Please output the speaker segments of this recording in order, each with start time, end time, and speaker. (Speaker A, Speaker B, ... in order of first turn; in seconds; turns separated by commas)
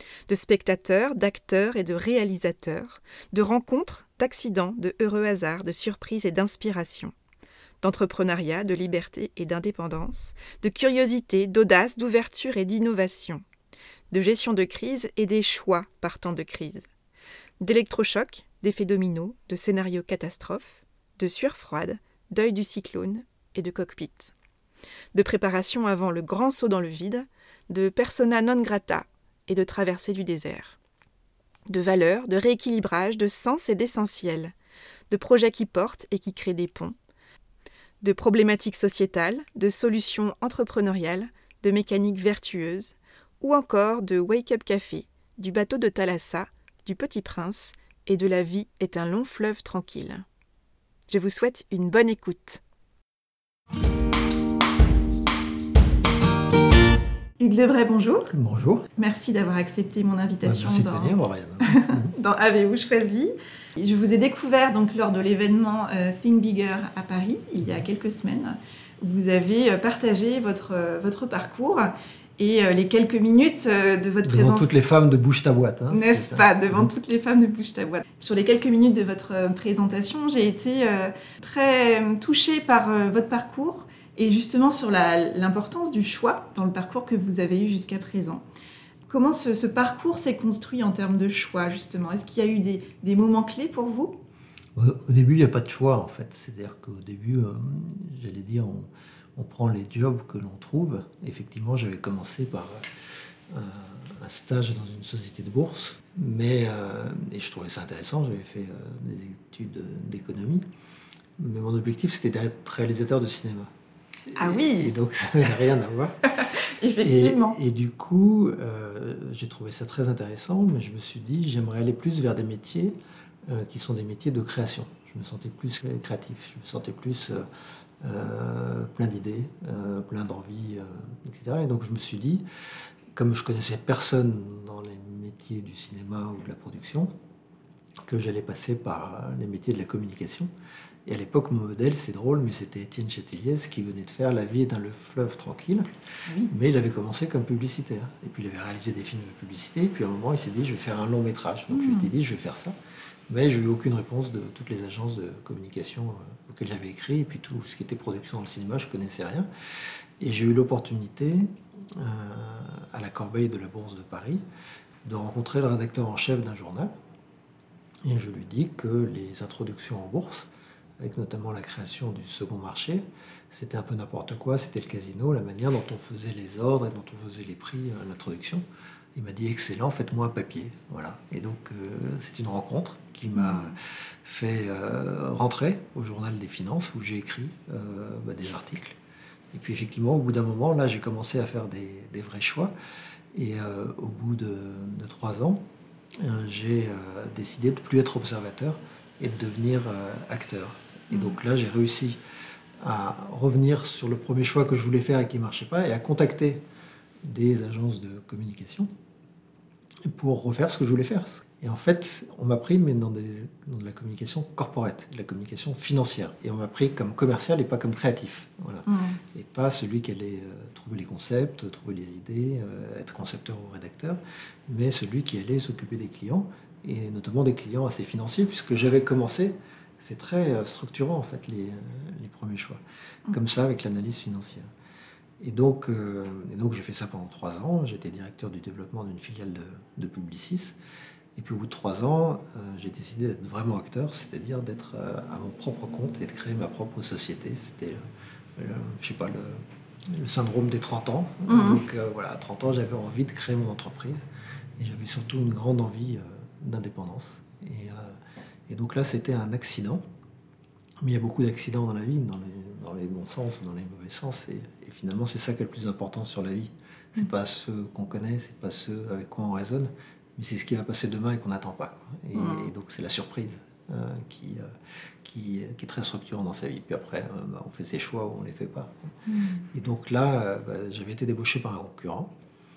Speaker A: 0.3-7.1, Speaker A: 7.8-13.4, Speaker A: 14.1-16.9, Speaker A: 17.6-24.3, Speaker A: 25.1-30.8, Speaker A: 31.7-34.5, Speaker A: 35.1-37.0, Speaker A: 38.0-50.2, Speaker A: 51.1-52.6, Speaker A: 57.4-58.3, Speaker B: 58.3-58.9, Speaker A: 59.0-74.7, Speaker B: 60.4-62.1, Speaker B: 74.2-76.9, Speaker A: 75.9-88.4, Speaker A: 89.1-94.2, Speaker B: 94.8-110.6, Speaker B: 111.4-113.7, Speaker B: 114.3-116.2, Speaker A: 114.3-114.9, Speaker A: 116.3-117.6, Speaker B: 117.0-123.0, Speaker B: 123.5-127.5, Speaker B: 128.0-132.4, Speaker B: 133.1-137.1, Speaker B: 138.0-140.5, Speaker B: 141.1-145.9, Speaker A: 146.3-146.5, Speaker B: 146.5-152.8, Speaker A: 151.7-152.1, Speaker B: 153.3-159.5, Speaker B: 160.2-164.4, Speaker B: 165.0-166.9, Speaker B: 168.1-170.5, Speaker B: 171.0-178.6, Speaker B: 179.2-189.0, Speaker A: 183.4-183.8, Speaker B: 189.5-192.7, Speaker B: 193.3-195.6, Speaker B: 196.2-202.2, Speaker A: 201.1-201.4, Speaker B: 202.8-206.6, Speaker B: 207.2-208.9, Speaker B: 210.1-234.7, Speaker A: 218.9-219.2, Speaker B: 235.4-240.8, Speaker B: 241.4-248.0, Speaker B: 248.6-254.2, Speaker A: 251.5-251.8, Speaker B: 254.8-260.0, Speaker B: 261.0-274.7, Speaker A: 272.4-272.7, Speaker B: 275.2-279.1, Speaker A: 279.3-279.7, Speaker B: 279.7-282.3